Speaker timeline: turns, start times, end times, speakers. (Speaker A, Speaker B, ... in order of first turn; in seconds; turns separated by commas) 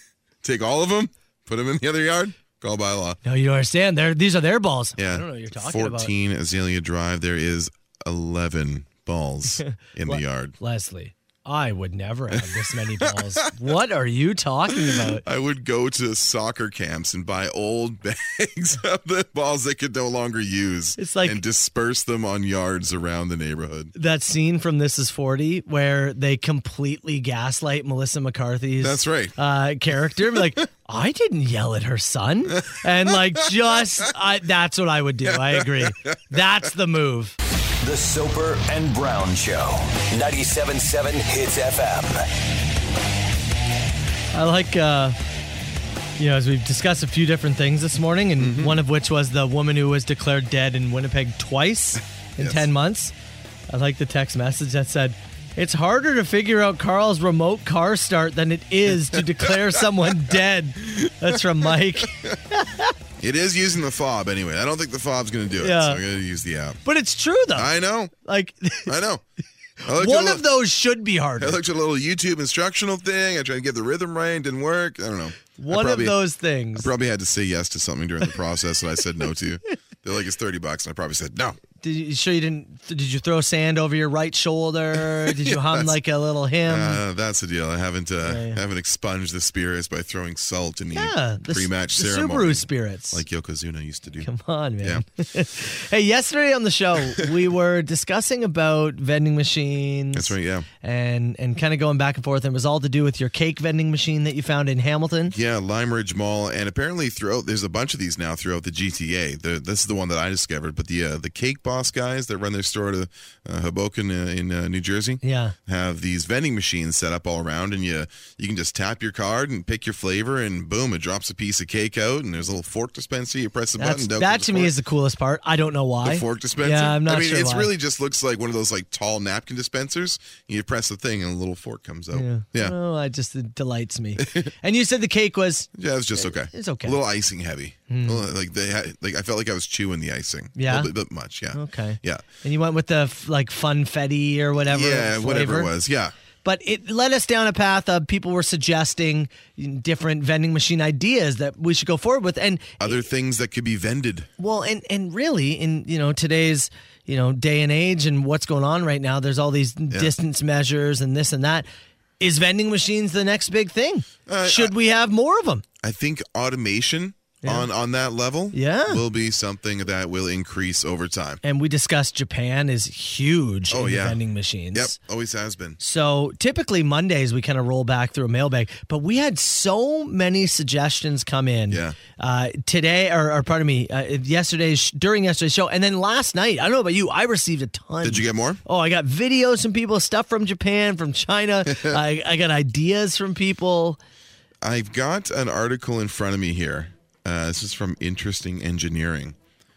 Speaker A: 0.4-3.2, Speaker B: 3.2-6.1, Speaker A: 5.0-10.6, Speaker B: 9.6-15.2, Speaker A: 13.0-13.5, Speaker A: 14.8-23.9, Speaker B: 21.0-21.4, Speaker B: 23.9-37.4, Speaker A: 28.8-29.3, Speaker A: 32.7-33.5, Speaker A: 35.3-36.4, Speaker C: 37.8-42.3, Speaker B: 44.3-45.2, Speaker B: 46.2-53.1, Speaker A: 48.4-48.8, Speaker A: 52.4-52.7, Speaker B: 53.7-63.0, Speaker A: 59.1-62.4, Speaker A: 63.2-66.8, Speaker B: 65.6-66.0, Speaker B: 66.8-67.7, Speaker A: 67.5-68.1, Speaker B: 68.2-68.9, Speaker A: 68.9-69.2, Speaker A: 69.9-70.5, Speaker B: 69.9-71.6, Speaker A: 71.4-76.2, Speaker B: 75.6-76.9, Speaker A: 76.8-81.6, Speaker B: 81.8-87.0, Speaker A: 85.2-86.0, Speaker A: 86.7-94.3, Speaker B: 88.2-88.6, Speaker B: 90.9-93.2, Speaker B: 94.2-105.3, Speaker A: 100.1-100.7, Speaker A: 105.3-124.7, Speaker B: 115.2-115.5, Speaker B: 123.8-127.7, Speaker A: 126.0-132.8, Speaker B: 132.1-137.0, Speaker A: 134.2-134.5, Speaker A: 135.8-142.2, Speaker B: 137.9-138.3, Speaker B: 140.6-140.9, Speaker B: 141.5-145.7, Speaker A: 144.7-146.1, Speaker B: 146.4-153.0, Speaker A: 152.8-154.3, Speaker B: 154.4-161.7, Speaker B: 162.2-165.7, Speaker A: 164.3-164.7, Speaker A: 165.8-171.4, Speaker B: 168.5-169.0, Speaker B: 171.4-175.0, Speaker A: 173.7-174.2, Speaker A: 174.7-175.8, Speaker B: 175.8-194.0, Speaker A: 181.7-182.0, Speaker A: 188.0-188.6, Speaker A: 191.7-192.0, Speaker A: 194.6-199.4